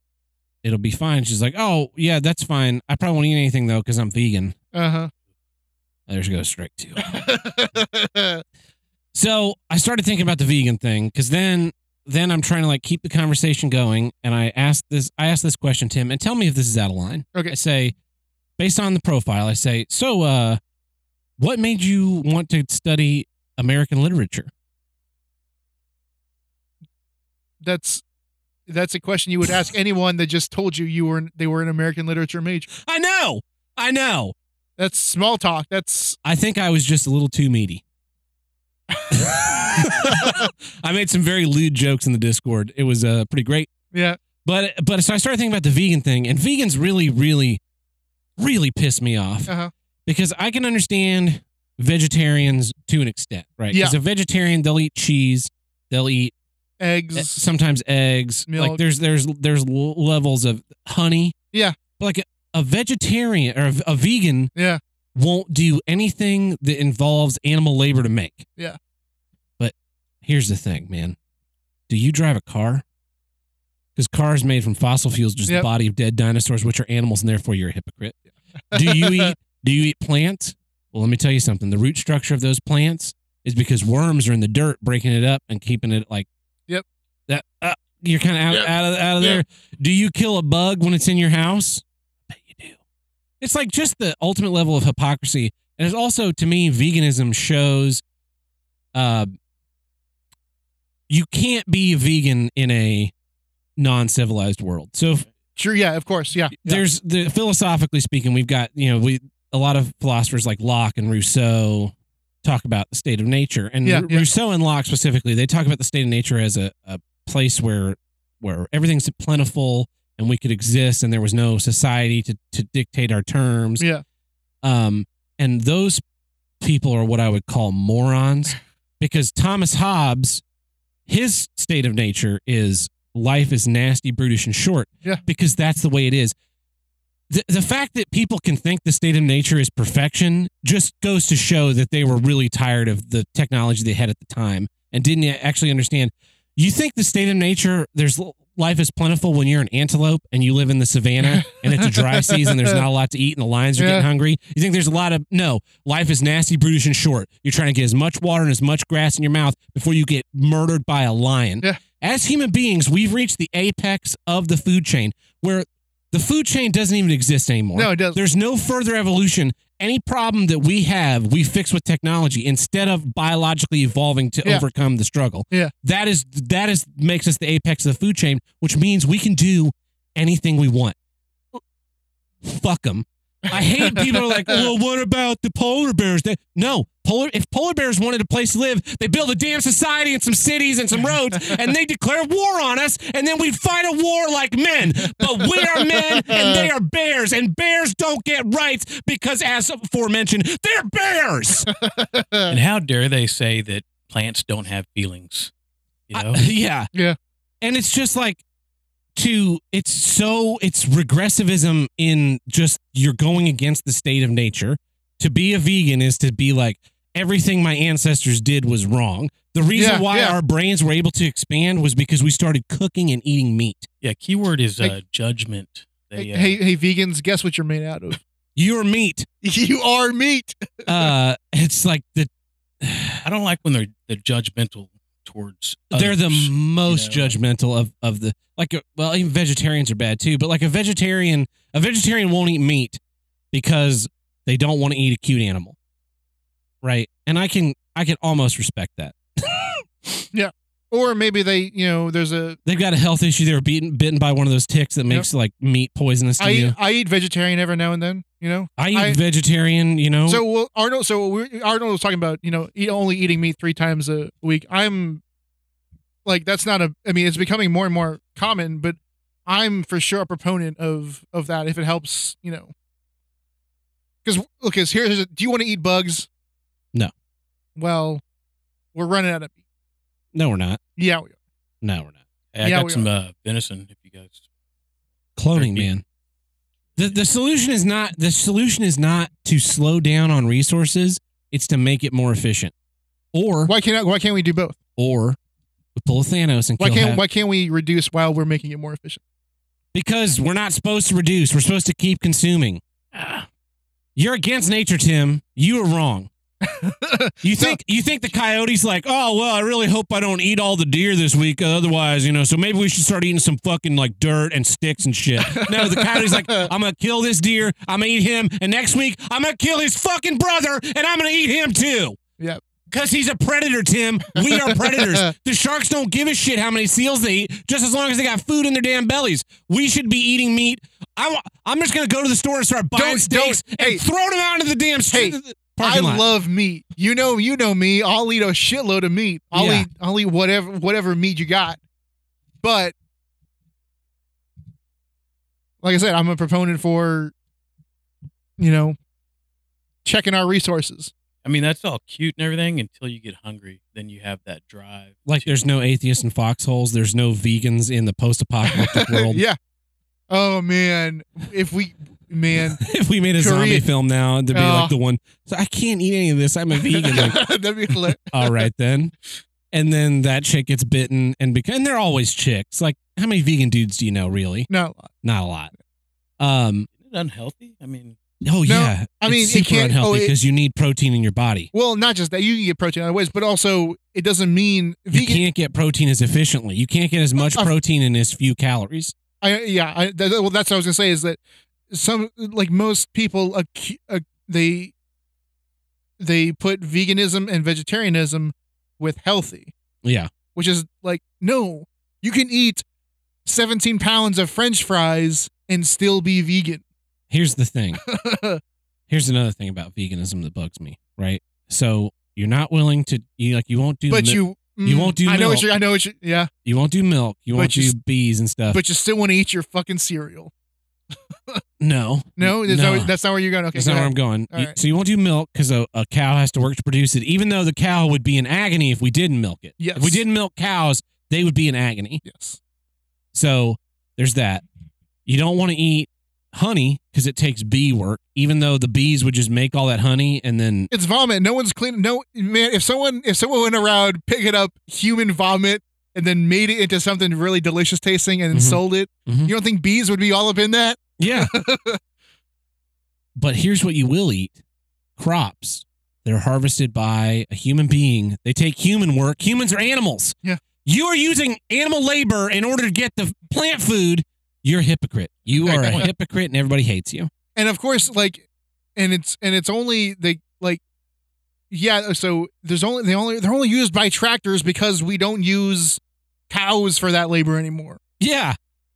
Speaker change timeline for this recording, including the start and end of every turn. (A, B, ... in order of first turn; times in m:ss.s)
0:00.6-0:04.6 A
0:04.7-0:05.1 B
0:06.1-0:07.2 A
0:07.0-0:08.4 B
0:09.1-0:17.9 A
0:18.6-0:20.6 A
0:21.4-0:24.5 A
0:27.6-0:28.0 B
0:28.7-0:32.7 B
0:32.8-0:34.3 A
0:34.8-0:36.2 B
0:36.2-0:37.8 A
0:38.9-0:40.5 B
0:39.1-0:43.7 A
0:43.9-0:44.2 B
0:44.4-0:47.6 A
0:48.4-0:49.5 A
0:49.5-0:49.7 B
0:50.0-0:56.3 A
0:53.7-0:54.0 B
0:56.8-0:57.4 B
0:57.1-1:01.4 A
0:58.5-0:58.8 B
1:01.5-1:01.8 B
1:02.0-1:04.5 A
1:04.5-1:04.8 B
1:05.1-1:08.4 A
1:09.6-1:11.2 A
1:11.9-1:12.8 A
1:14.0-1:18.2 A
1:18.7-1:19.3 B
1:18.7-1:26.3 A
1:27.3-1:32.8 A
1:28.5-1:29.4 B
1:33.4-1:38.0 A
1:38.9-1:39.3 A
1:41.1-1:43.1 A
1:43.8-1:45.2 A
1:45.6-1:46.8 B
1:46.6-2:03.9 A
1:53.8-1:54.3 B
2:03.8-2:04.0 B
2:04.6-2:06.0 A
2:06.6-2:10.4 A
2:11.1-2:16.3 A
2:17.3-3:01.0 A
2:31.2-2:32.8 B
2:33.8-2:34.1 B
2:47.7-2:48.2 B
3:02.4-3:21.7 A
3:03.4-3:04.7 B
3:15.2-3:16.7 B
3:21.7-3:22.6 B
3:22.5-3:25.5 C
3:26.1-3:26.4 C
3:26.1-3:26.9 A
3:27.6-3:28.4 A
3:29.2-3:43.9 A
3:39.7-3:40.4 B
3:44.0-3:46.6 C
3:46.2-3:48.2 B
3:48.6-3:49.3 A
3:49.4-3:51.1 B
3:50.8-3:52.3 A
3:52.8-3:53.2 A
3:53.2-3:57.4 C
3:55.9-4:03.0 A
4:03.5-4:05.8 A
4:06.8-4:10.2 A
4:10.3-4:12.6 B
4:12.6-4:16.7 A
4:16.4-4:19.2 B
4:18.8-4:20.4 A
4:20.3-4:25.2 B
4:26.2-4:32.7 B
4:34.2-4:36.3 B
4:37.8-4:38.2 B
4:38.9-4:39.6 B
4:40.3-4:40.8 A
4:41.0-4:41.4 B
4:41.8-4:42.2 A
4:42.5-4:44.4 C
4:42.6-4:43.1 B
4:45.4-4:46.0 A
4:45.5-4:45.9 C
4:47.0-4:52.7 A
4:53.3-4:53.7 A
4:53.6-4:54.8 B
4:55.0-4:55.4 A
4:56.0-4:57.2 A
4:56.8-4:59.2 B
4:59.9-5:02.8 A
5:03.1-5:03.4 C
5:04.2-5:06.3 A
5:06.6-5:07.8 B
5:07.4-5:22.2 A
5:15.4-5:16.7 B
5:22.9-5:36.2 A
5:24.3-5:25.3 B
5:32.9-5:34.0 B
5:35.1-5:41.8 B
5:39.5-5:39.9 A
5:42.6-5:42.9 B
5:45.8-5:47.3 B
5:48.6-5:49.0 B
5:50.0-5:51.1 B
5:51.4-5:55.6 C
5:55.2-5:59.4 A
5:58.7-5:59.6 B
6:00.3-6:03.9 B
6:02.8-6:09.1 A
6:04.5-6:04.9 B
6:06.8-6:08.7 B
6:09.7-6:14.7 A
6:14.7-6:15.1 B
6:15.2-6:15.7 A
6:16.4-6:16.9 A
6:17.0-6:18.2 C
6:18.4-6:21.7 A
6:18.6-6:20.3 B
6:21.7-6:25.4 B
6:25.1-6:29.1 A
6:27.4-6:27.7 B
6:29.4-6:34.9 B
6:36.2-6:39.7 B
6:40.0-6:40.3 A
6:40.5-6:42.8 B
6:43.4-6:46.8 B
6:47.3-6:48.0 A
6:48.0-6:48.6 B
6:49.1-6:55.8 A
6:54.1-6:56.5 B
6:56.6-6:58.8 A
6:57.5-6:58.0 B
6:58.7-7:00.5 B
7:01.1-7:01.6 B
7:01.8-7:03.1 A
7:02.4-7:04.8 B
7:03.7-7:12.2 A
7:09.8-7:10.2 B
7:12.2-7:12.6 B
7:13.3-7:14.6 A
7:15.2-7:20.9 A
7:20.9-7:32.0 B
7:28.5-7:29.5 A
7:31.2-7:31.5 A
7:33.4-7:34.6 A
7:35.2-7:47.3 A
7:45.6-7:46.1 C
7:45.6-7:46.1 B
7:47.6-7:48.4 B
7:49.0-7:50.8 B
7:51.7-7:58.0 B
7:58.2-7:58.6 A